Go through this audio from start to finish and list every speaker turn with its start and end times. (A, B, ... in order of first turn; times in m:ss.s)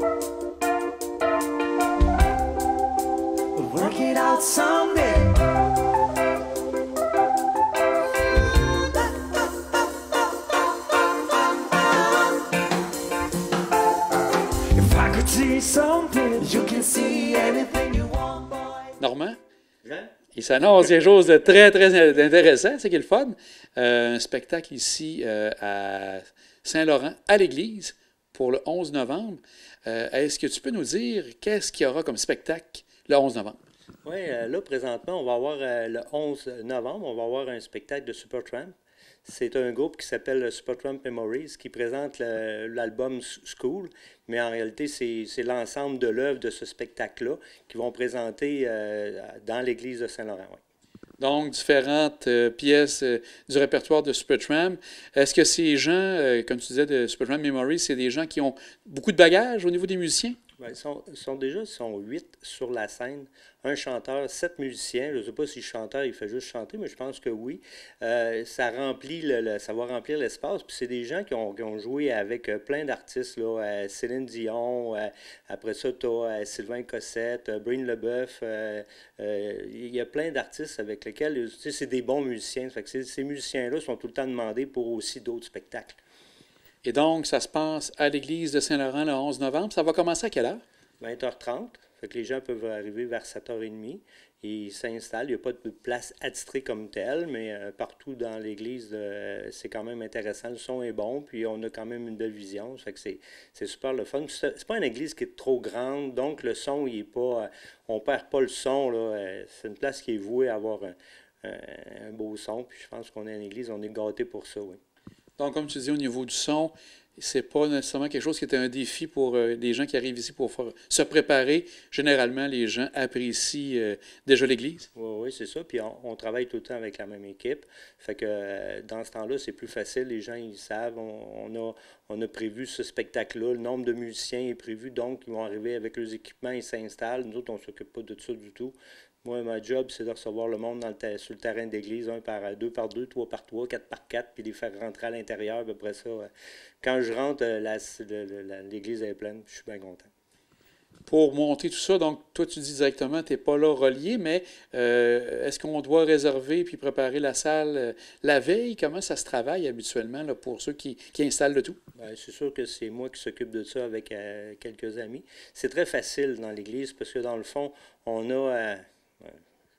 0:03.5-0:05.4 A
0:11.7-0:12.4 A
0:14.7-0:18.9 A
0:19.0-0:19.4 B
0:19.8-0:20.1 C
0:20.3-0:33.6 B
0:34.0-0:38.7 C
0:39.2-0:50.6 C
0:51.2-1:00.4 B
1:00.6-1:26.0 C
1:26.8-1:30.6 B
1:31.0-1:54.8 C
1:55.4-2:04.9 B
2:04.9-2:26.3 C
2:26.8-2:30.1 C
2:31.1-2:41.8 B
2:42.0-2:49.4 C